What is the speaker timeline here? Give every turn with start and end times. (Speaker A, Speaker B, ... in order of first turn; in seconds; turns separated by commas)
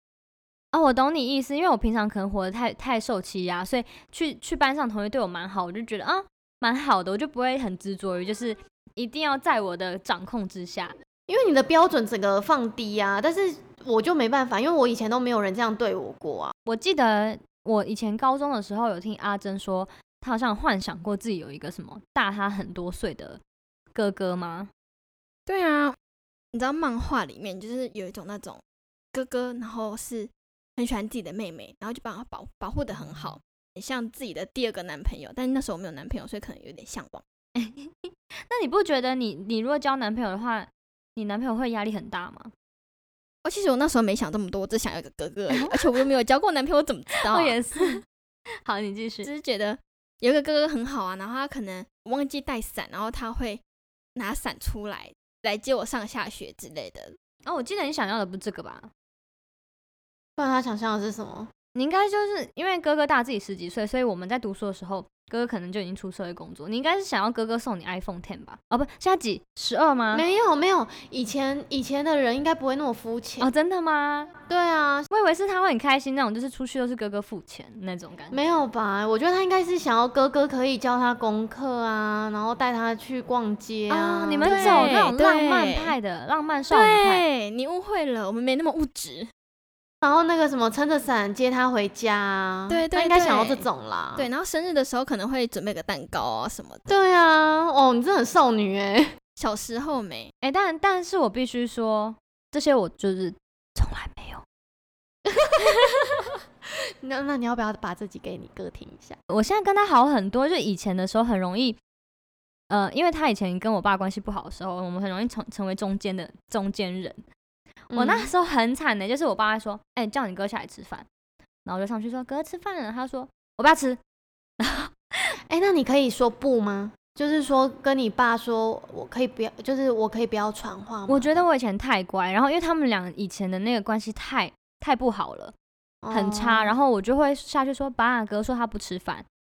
Speaker A: 0.7-10.9, Speaker B: 11.3-16.5, Speaker A: 16.6-23.4, Speaker A: 23.9-24.7, Speaker C: 25.5-25.9, Speaker C: 26.5-28.6, Speaker C: 29.1-37.2, Speaker A: 37.5-42.5, Speaker C: 43.4-48.0, Speaker A: 45.5-45.8, Speaker A: 47.2-48.0, Speaker A: 48.6-49.3, Speaker C: 49.2-53.6, Speaker C: 54.1-57.2, Speaker A: 57.5-58.9, Speaker B: 60.4-61.5, Speaker A: 61.7-70.2, Speaker B: 70.1-73.5, Speaker A: 73.4-74.3, Speaker B: 74.5-75.1, Speaker A: 75.1-78.4, Speaker B: 78.3-85.1, Speaker A: 83.9-87.2, Speaker C: 84.4-85.9, Speaker C: 86.7-89.3, Speaker B: 90.0-94.3, Speaker C: 92.7-96.9, Speaker B: 96.9-99.1, Speaker C: 99.4-100.3, Speaker A: 100.4-104.4, Speaker B: 105.4-106.3, Speaker B: 107.0-109.2, Speaker A: 109.3-111.8, Speaker A: 112.7-117.2, Speaker B: 117.9-118.3, Speaker A: 117.9-121.1, Speaker A: 121.6-124.0, Speaker A: 124.6-125.3, Speaker B: 125.5-131.4, Speaker A: 131.1-135.5, Speaker B: 136.0-136.8, Speaker A: 136.1-139.2